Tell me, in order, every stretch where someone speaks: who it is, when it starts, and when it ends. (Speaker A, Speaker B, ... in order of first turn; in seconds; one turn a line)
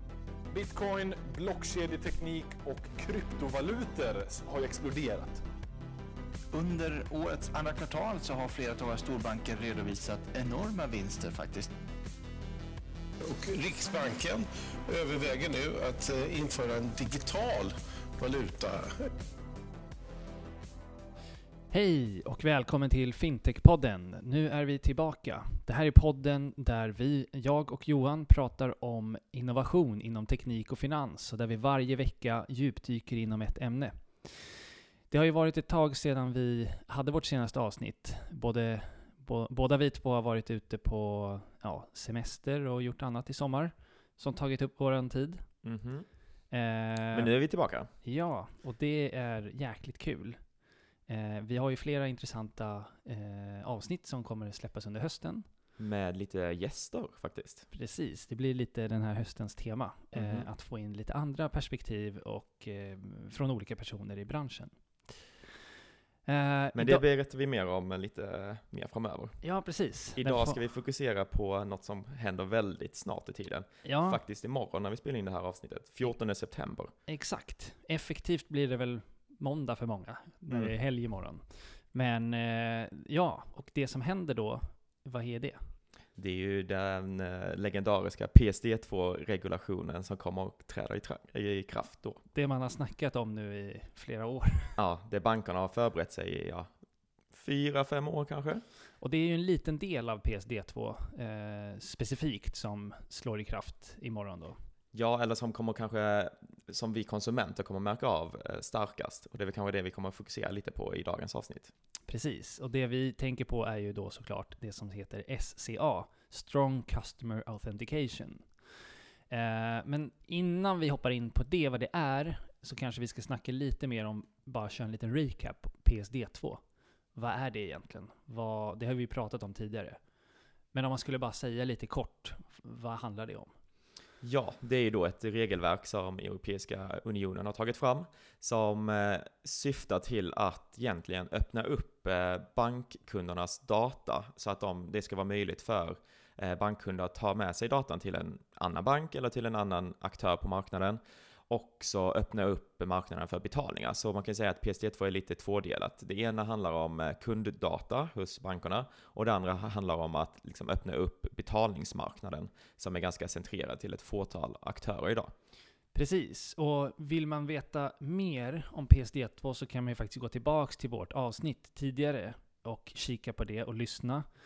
Speaker A: 0.5-5.4
Speaker B: 6.5-11.7
Speaker C: 13.2-18.9
Speaker D: 21.7-45.4
Speaker E: 45.6-46.0
Speaker D: 46.5-47.3
Speaker E: 47.1-47.9
Speaker D: 48.0-50.4
Speaker D: 51.1-55.5
Speaker E: 55.8-57.6
Speaker D: 57.7-65.3
Speaker E: 60.1-60.5
Speaker D: 66.3-67.0
Speaker E: 66.7-69.4
Speaker D: 69.4-70.6
Speaker E: 70.1-76.9
Speaker D: 73.8-74.2
Speaker D: 77.1-85.7
Speaker E: 86.2-92.2
Speaker D: 92.3-94.8
Speaker E: 94.8-96.7
Speaker E: 97.3-98.6
Speaker D: 99.0-104.6
Speaker E: 104.9-111.7
Speaker D: 112.1-118.5
Speaker D: 119.3-126.6
Speaker D: 127.1-130.0
Speaker D: 130.7-133.5
Speaker E: 134.2-165.3
Speaker D: 165.9-174.2